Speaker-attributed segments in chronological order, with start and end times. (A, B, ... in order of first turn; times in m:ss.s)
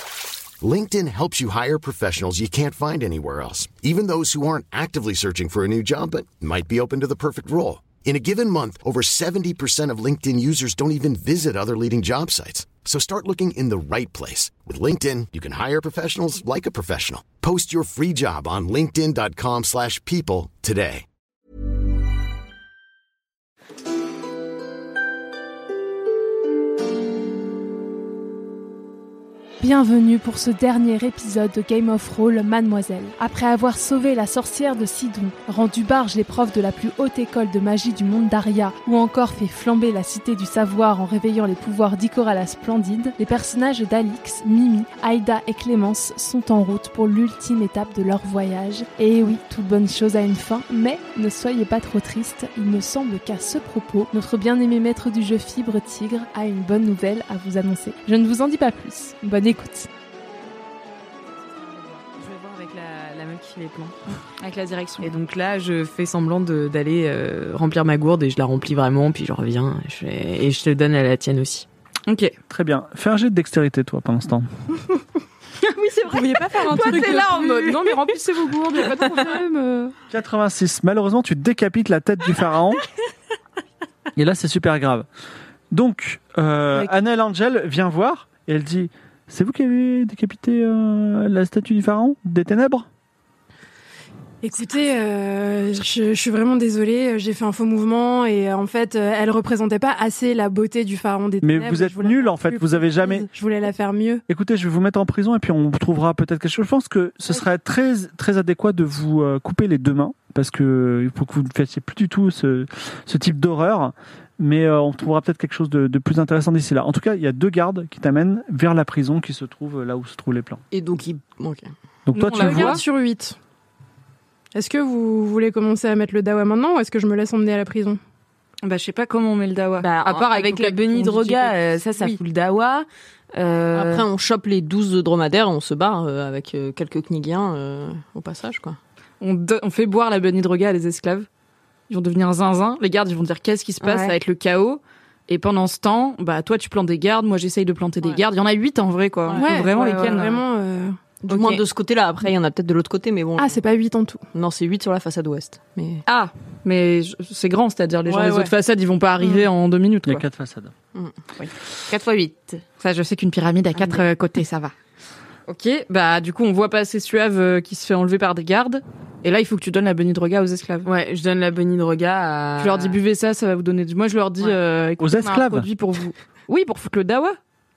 0:00.6-0:21.0 A
0:29.6-0:59.9 B
1:01.6-1:04.2 C
1:04.4-1:05.1 D
1:05.0-1:11.7 C
1:12.1-1:12.4 D
1:12.5-1:14.5 E
1:15.6-1:20.0 D
1:16.1-1:18.1 F
1:20.1-1:22.8 E
1:24.1-1:25.1 E
1:25.7-1:32.9 E
1:34.4-1:44.2 F
1:41.4-1:43.3 E
1:44.3-2:00.6 E
2:00.7-2:01.7 G
2:02.1-2:02.8 E
2:02.1-2:02.8 D
2:02.3-2:03.4 F
2:04.5-2:08.0 F
2:08.6-2:12.2 D
2:09.8-2:14.0 C
2:13.7-2:18.8 G
2:19.2-2:21.3 D
2:21.9-2:30.4 D
2:23.8-2:24.2 C
2:29.3-2:29.7 G
2:29.4-2:31.0 F
2:29.8-2:30.2 C
2:31.3-2:33.6 G
2:31.3-2:31.6 C
2:33.4-2:34.2 F
2:34.3-2:36.0 G
2:36.1-2:40.2 D
2:38.1-2:38.5 G
2:40.1-2:40.7 E
2:41.9-2:42.6 C
2:42.8-2:44.7 D
2:45.5-2:50.9 D
2:50.8-2:53.0 C
2:52.6-2:57.4 D
2:55.0-2:55.7 E